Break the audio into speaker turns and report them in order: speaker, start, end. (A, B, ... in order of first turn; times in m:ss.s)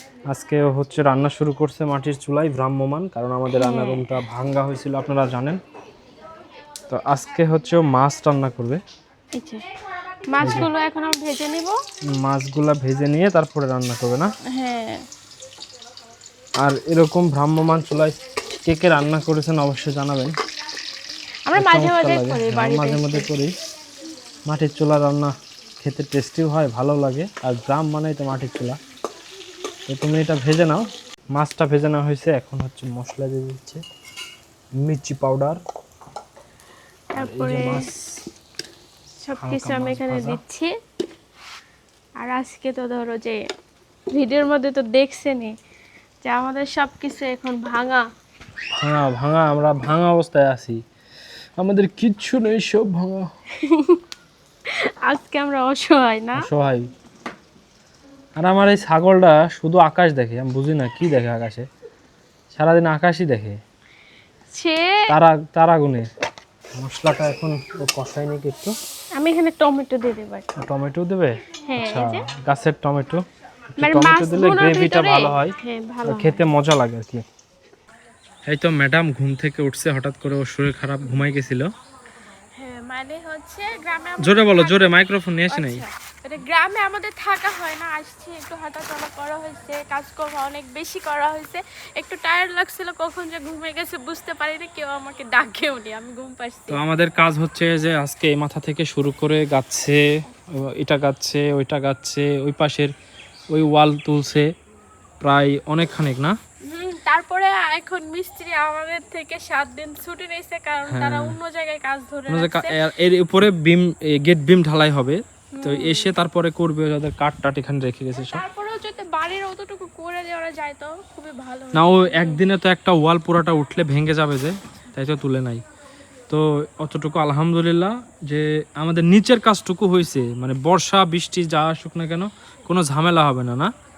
0:00.3-0:05.6 A
0:03.5-0:04.2 B
0:06.9-0:08.8 A
0:09.3-0:09.7 B
0:10.3-0:11.8 B
0:10.4-0:10.7 A
0:12.0-0:14.3 A
0:14.5-0:15.1 B
0:16.6-0:20.4 A
0:21.5-0:23.3 B
0:21.6-0:23.6 A
0:24.5-0:28.8 A
0:29.9-0:33.8 A
0:34.8-0:35.6 A
0:37.1-0:37.8 B
0:37.2-0:38.2 A
0:39.2-0:40.7 B
0:39.4-0:40.4 A
0:42.2-0:43.4 B
0:44.1-0:45.6 B
0:46.2-0:48.1 B
0:48.8-0:50.8 A
0:51.6-0:53.3 A
0:53.6-0:54.0 B
0:54.7-0:56.5 B
0:56.4-0:56.9 A
0:58.4-1:01.7 A
1:02.5-1:03.6 A
1:04.5-1:05.1 B
1:05.1-1:06.1 A
1:06.7-1:08.8 A
1:09.2-1:10.5 B
1:10.6-1:13.2 A
1:11.6-1:12.3 B
1:13.8-1:17.3 A
1:13.8-1:16.4 B
1:18.5-1:21.7 A
1:22.6-1:24.9 B
1:24.2-1:25.8 A
1:25.5-1:36.8 B
1:36.7-1:42.9 A
1:43.5-1:44.5 A
1:45.2-1:46.4 A
1:46.7-1:52.7 B
1:50.9-1:51.4 A
1:52.3-1:58.4 A
1:55.5-1:56.2 B
1:58.2-2:02.4 B
2:01.7-2:05.6 A
2:06.3-2:13.7 A